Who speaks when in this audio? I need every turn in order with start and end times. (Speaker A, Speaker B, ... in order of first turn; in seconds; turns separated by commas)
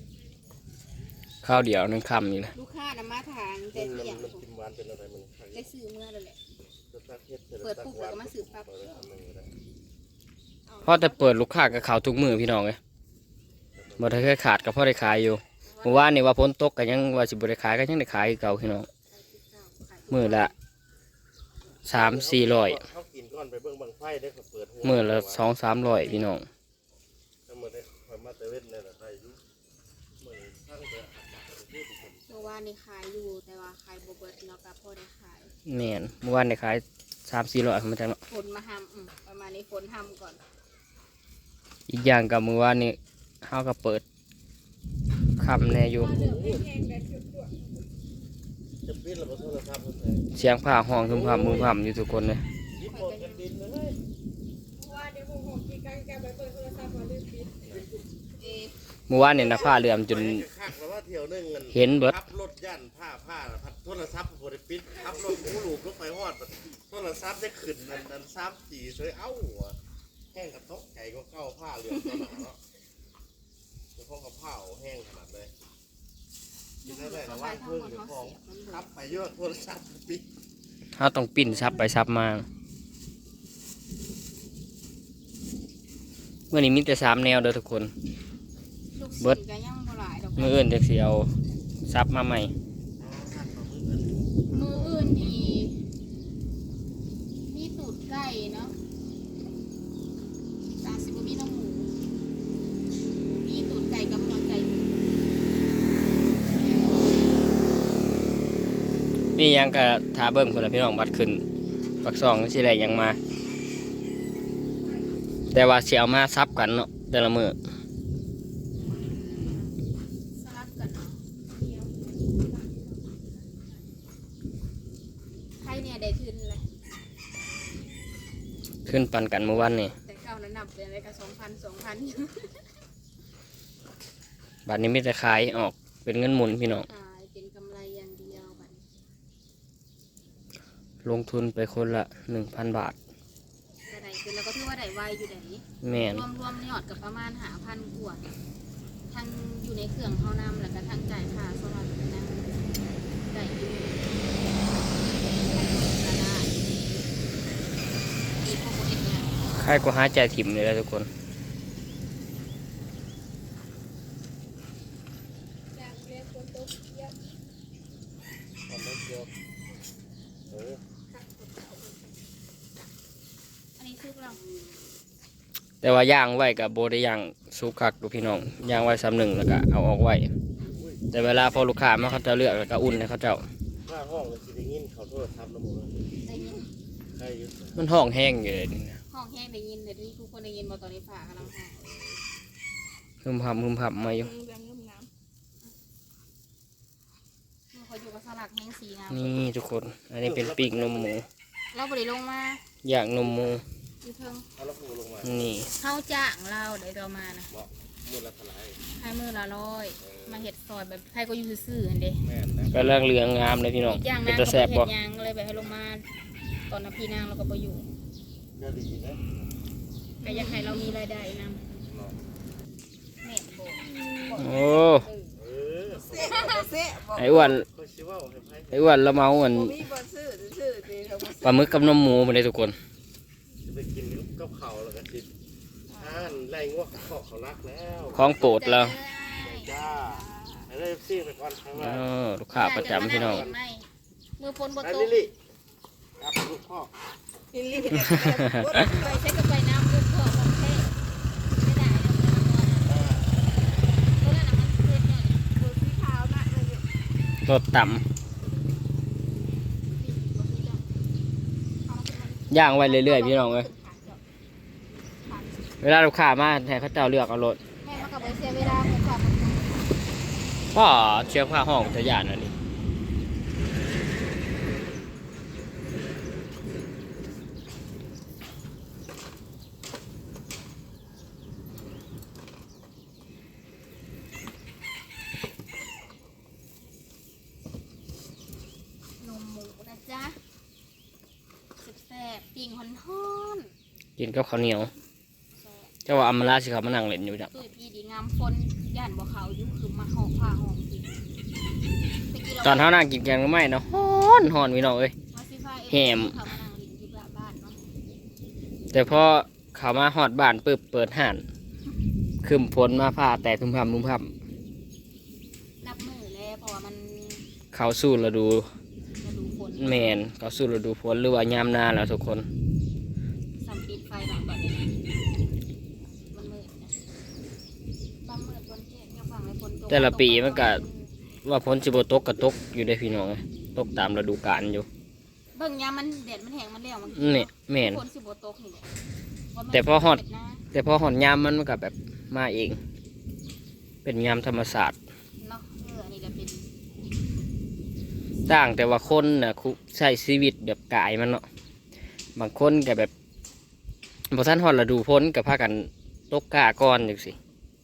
Speaker A: 1.4-2.5, Speaker B: 2.5-4.4, Speaker C: 3.7-5.7, Speaker B: 5.5-6.4, Speaker C: 6.9-9.5, Speaker B: 7.6-8.8, Speaker A: 10.8-12.8, Speaker C: 13.8-14.2, Speaker A: 14.0-18.9, Speaker B: 15.6-16.1, Speaker B: 19.1-20.5, Speaker A: 20.1-20.5, Speaker A: 21.9-22.8, Speaker C: 21.9-25.5, Speaker A: 24.8-26.4, Speaker C: 27.5-29.4, Speaker C: 30.2-32.2, Speaker B: 32.3-35.5, Speaker A: 35.7-38.2, Speaker B: 38.3-40.4, Speaker A: 41.9-44.0, Speaker A: 45.4-46.2, Speaker D: 46.0-47.6, Speaker C: 46.0-46.6, Speaker C: 48.8-50.2, Speaker A: 50.3-52.4, Speaker C: 51.0-51.7, Speaker C: 52.8-54.0, Speaker B: 52.8-53.4, Speaker D: 54.8-57.8, Speaker D: 58.4-58.7, Speaker A: 59.1-60.5, Speaker C: 59.5-69.8, Speaker A: 61.7-62.2, Speaker C: 70.3-72.6, Speaker C: 74.0-75.5, Speaker B: 76.8-78.9, Speaker C: 76.8-80.2, Speaker A: 81.0-82.5, Speaker A: 86.5-87.9, Speaker B: 88.9-90.7, Speaker A: 90.4-91.3, Speaker A: 91.9-92.5, Speaker C: 93.0-95.2, Speaker B: 94.5-95.8, Speaker B: 97.5-98.7, Speaker B: 100.8-101.9, Speaker B: 103.4-104.9, Speaker A: 109.3-111.4, Speaker A: 112.0-113.2, Speaker A: 115.5-117.6, Speaker B: 120.3-121.2, Speaker D: 121.5-123.1, Speaker B: 125.6-126.6, Speaker A: 128.8-129.9, Speaker B: 130.0-132.6, Speaker A: 134.7-136.9, Speaker B: 136.8-138.8, Speaker A: 141.0-142.9, Speaker B: 143.9-148.2, Speaker A: 145.8-146.2, Speaker B: 149.1-157.0, Speaker B: 158.4-159.5, Speaker A: 159.6-161.1, Speaker D: 165.8-167.2, Speaker C: 168.7-169.3, Speaker C: 170.5-170.8, Speaker D: 171.1-172.1, Speaker B: 173.8-174.4, Speaker A: 175.8-180.3, Speaker C: 180.6-181.0, Speaker A: 181.1-183.4, Speaker B: 181.2-182.1, Speaker C: 183.8-186.1, Speaker B: 186.2-186.7, Speaker C: 187.1-187.8, Speaker A: 187.8-189.0, Speaker B: 189.1-191.8, Speaker C: 191.8-192.2, Speaker A: 193.2-194.3, Speaker D: 194.1-195.1, Speaker B: 197.7-199.4, Speaker A: 199.1-201.2, Speaker C: 200.2-201.2, Speaker B: 201.7-202.6, Speaker A: 202.8-203.6, Speaker B: 204.0-204.4, Speaker C: 204.6-205.5, Speaker A: 205.2-205.7, Speaker B: 205.8-207.5, Speaker C: 207.5-208.8, Speaker B: 208.9-212.2, Speaker C: 210.0-210.5, Speaker C: 212.2-212.9, Speaker A: 212.7-214.9, Speaker B: 213.8-216.0, Speaker B: 216.7-217.8, Speaker C: 218.6-219.2, Speaker B: 220.2-221.6, Speaker C: 221.9-222.1, Speaker B: 223.2-224.8, Speaker D: 223.8-225.1, Speaker A: 224.3-225.1, Speaker C: 225.3-226.6, Speaker D: 225.9-227.6, Speaker A: 227.1-227.7, Speaker C: 227.7-228.8, Speaker A: 228.7-229.8, Speaker D: 229.4-231.8, Speaker A: 231.4-232.8, Speaker C: 233.6-235.3, Speaker B: 235.9-236.3, Speaker C: 236.0-238.3, Speaker A: 238.1-238.9, Speaker B: 238.4-239.8, Speaker C: 239.4-242.1, Speaker A: 241.8-243.4, Speaker B: 242.5-243.9, Speaker C: 242.7-243.6, Speaker B: 244.4-245.3, Speaker C: 244.8-245.3, Speaker C: 246.2-246.9, Speaker D: 247.5-249.2, Speaker A: 248.2-248.7, Speaker B: 248.7-250.9, Speaker B: 251.5-253.0, Speaker C: 252.9-253.2, Speaker B: 254.2-255.4, Speaker D: 255.5-256.8, Speaker A: 257.4-258.0, Speaker B: 259.9-260.8, Speaker B: 261.8-264.2, Speaker A: 262.5-263.7, Speaker B: 265.2-265.7, Speaker A: 265.8-267.6, Speaker B: 267.8-270.0, Speaker A: 270.7-272.5, Speaker B: 289.2-290.4, Speaker B: 291.8-293.7, Speaker A: 294.2-294.9, Speaker B: 295.6-295.9, Speaker A: 296.1-297.5, Speaker B: 297.5-301.2, Speaker B: 302.3-303.0, Speaker A: 302.6-305.1, Speaker B: 305.3-307.8, Speaker A: 305.9-306.4, Speaker A: 308.9-311.4, Speaker A: 312.4-314.3, Speaker B: 315.8-317.4, Speaker A: 317.7-318.7, Speaker B: 319.2-320.2, Speaker A: 319.8-322.5, Speaker B: 323.6-325.0, Speaker B: 326.3-326.9, Speaker B: 328.2-331.1, Speaker A: 329.9-330.8, Speaker A: 331.4-334.9, Speaker B: 335.5-338.9, Speaker A: 337.1-338.0, Speaker B: 339.5-340.6, Speaker A: 339.7-340.2, Speaker A: 340.7-342.8, Speaker A: 344.0-344.9, Speaker B: 345.4-346.7, Speaker A: 348.4-351.4, Speaker A: 352.3-353.1, Speaker A: 354.3-357.4